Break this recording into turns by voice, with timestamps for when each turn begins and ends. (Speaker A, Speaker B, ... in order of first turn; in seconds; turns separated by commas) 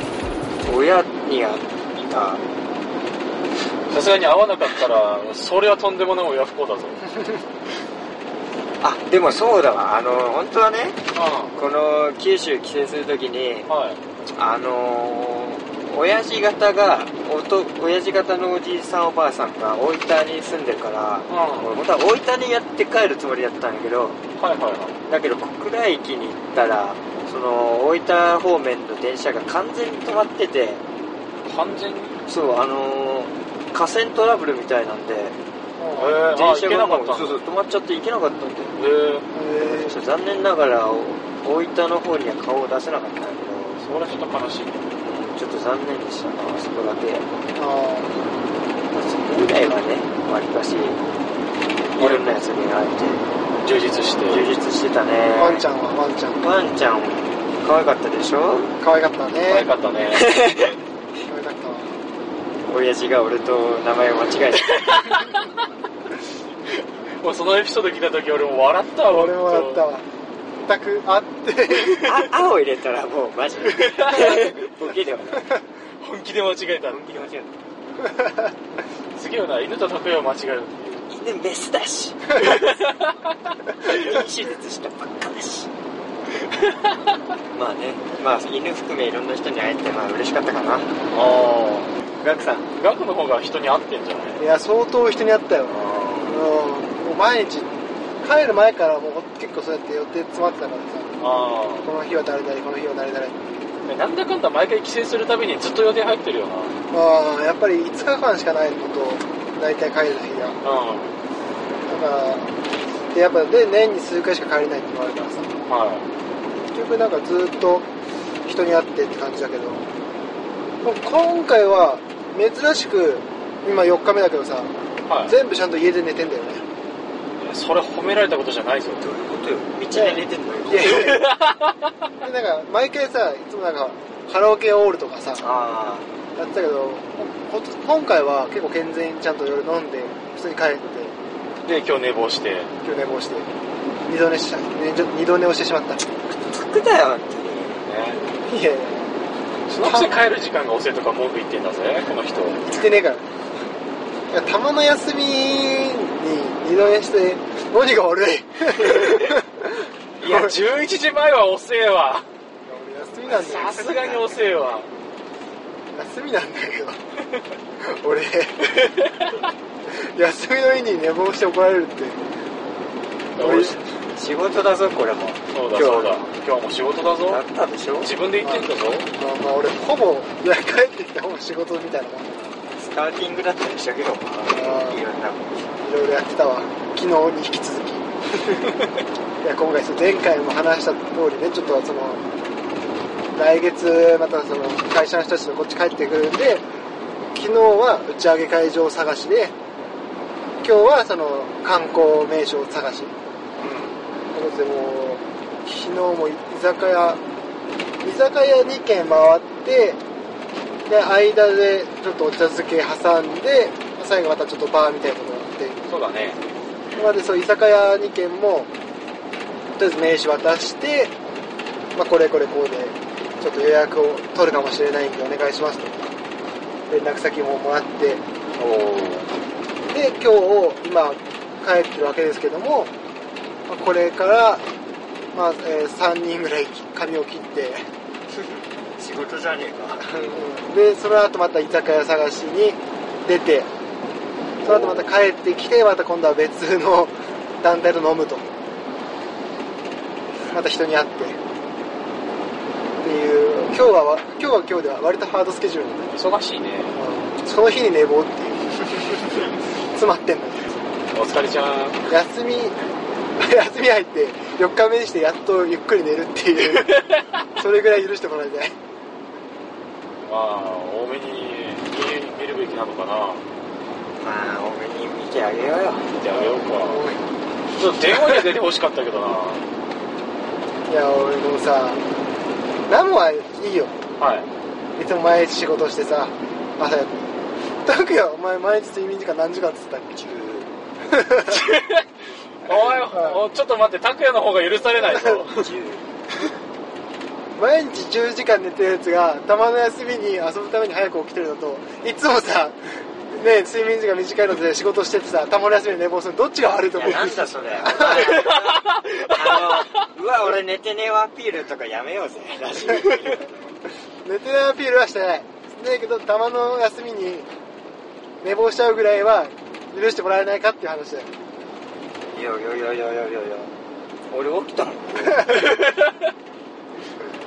Speaker A: 0.6-2.4, Speaker B: 3.9-7.1, Speaker A: 8.8-11.0, Speaker B: 11.1-11.6, Speaker A: 11.6-13.7, Speaker B: 13.7-14.0, Speaker A: 14.3-24.2, Speaker B: 21.3-21.8, Speaker B: 24.4-25.0, Speaker A: 25.1-30.8, Speaker B: 31.4-32.2, Speaker A: 32.2-35.4, Speaker C: 35.8-36.2, Speaker B: 35.9-37.4, Speaker A: 36.2-38.7, Speaker B: 38.8-39.3, Speaker C: 39.3-40.0, Speaker A: 39.6-44.0, Speaker B: 43.8-44.8, Speaker A: 45.0-47.3, Speaker C: 47.6-48.2, Speaker A: 48.9-51.0, Speaker A: 51.9-53.2, Speaker B: 52.0-52.4, Speaker B: 53.6-54.5, Speaker A: 54.3-55.6, Speaker C: 55.4-56.4, Speaker A: 56.4-58.8, Speaker C: 58.8-59.7, Speaker B: 59.5-60.4, Speaker A: 60.1-60.8, Speaker C: 61.3-62.0, Speaker A: 62.7-64.8, Speaker B: 64.8-65.5, Speaker B: 67.2-69.9, Speaker C: 69.1-70.1, Speaker C: 70.7-72.0, Speaker B: 71.7-72.0, Speaker A: 72.0-75.5, Speaker B: 73.7-74.5, Speaker B: 76.0-77.5, Speaker B: 79.2-81.1, Speaker A: 81.1-82.4, Speaker B: 82.3-83.1, Speaker A: 83.8-85.7, Speaker B: 86.5-87.0, Speaker A: 87.5-91.0, Speaker B: 91.1-91.9, Speaker A: 92.2-92.7, Speaker B: 92.7-94.4, Speaker C: 94.4-97.7, Speaker B: 95.7-96.4, Speaker C: 98.2-101.2, Speaker B: 101.2-101.9, Speaker C: 101.8-103.4, Speaker B: 103.9-106.8, Speaker C: 106.9-110.6, Speaker B: 110.6-111.2, Speaker C: 111.9-112.5, Speaker C: 113.1-115.5, Speaker B: 115.7-116.1, Speaker C: 116.6-117.9, Speaker C: 118.5-119.8, Speaker C: 120.8-124.7, Speaker B: 125.1-125.3, Speaker C: 125.2-126.6, Speaker B: 127.4-129.0, Speaker A: 129.0-131.1, Speaker C: 129.9-131.3, Speaker B: 130.9-131.7, Speaker C: 132.2-135.4, Speaker A: 135.4-136.1, Speaker C: 136.3-141.1, Speaker B: 141.6-142.7, Speaker C: 142.8-143.5, Speaker C: 144.1-146.1, Speaker A: 146.3-147.8, Speaker B: 147.8-148.3, Speaker C: 148.4-149.1, Speaker B: 149.7-152.6, Speaker C: 149.8-150.2, Speaker C: 152.6-153.2, Speaker C: 154.3-159.6, Speaker B: 158.8-159.4, Speaker B: 160.2-162.2, Speaker C: 160.2-160.6, Speaker C: 162.7-164.3, Speaker B: 163.3-164.9, Speaker C: 165.9-167.0, Speaker C: 167.8-168.7, Speaker C: 169.9-172.2, Speaker B: 173.4-173.8, Speaker C: 173.4-173.8, Speaker A: 173.6-176.2, Speaker B: 175.5-177.4, Speaker A: 177.2-178.1, Speaker B: 178.0-179.1, Speaker C: 178.4-182.5, Speaker A: 182.8-185.7, Speaker C: 184.4-185.0, Speaker C: 185.8-188.1, Speaker C: 189.4-192.2, Speaker C: 193.3-196.6, Speaker C: 197.3-199.5, Speaker C: 200.6-203.1, Speaker B: 203.6-204.0, Speaker C: 204.3-207.2, Speaker C: 208.0-210.0, Speaker C: 210.9-215.8, Speaker B: 215.9-216.4, Speaker C: 216.9-218.7, Speaker C: 219.8-221.1, Speaker C: 221.9-226.0, Speaker C: 226.9-228.2, Speaker B: 228.6-229.3, Speaker C: 229.9-232.9, Speaker C: 233.7-234.6, Speaker C: 235.3-237.9, Speaker A: 238.3-240.4, Speaker C: 240.0-243.7, Speaker C: 244.6-248.5, Speaker A: 244.7-244.9, Speaker C: 250.4-251.4, Speaker C: 253.0-256.1, Speaker B: 256.1-256.9, Speaker C: 256.9-259.3, Speaker C: 259.9-260.8, Speaker B: 261.1-262.0, Speaker C: 262.1-262.8, Speaker C: 263.4-267.1, Speaker B: 266.9-267.3, Speaker C: 267.6-268.8, Speaker B: 270.2-273.4, Speaker A: 274.2-276.1, Speaker B: 276.1-277.0, Speaker C: 276.3-277.2, Speaker B: 277.8-279.6, Speaker C: 280.9-282.0, Speaker C: 282.9-284.0, Speaker B: 284.2-284.5, Speaker C: 284.9-287.2, Speaker C: 287.8-290.2, Speaker A: 290.1-290.7, Speaker C: 291.1-291.6, Speaker B: 291.5-292.1, Speaker B: 292.6-295.7, Speaker C: 293.1-293.4, Speaker C: 294.9-295.4, Speaker A: 295.5-296.1, Speaker C: 297.6-308.4, Speaker A: 306.9-313.6, Speaker B: 308.2-309.9, Speaker C: 314.2-317.5, Speaker C: 318.4-321.3, Speaker A: 322.3-323.7, Speaker A: 324.3-325.6, Speaker B: 325.5-326.1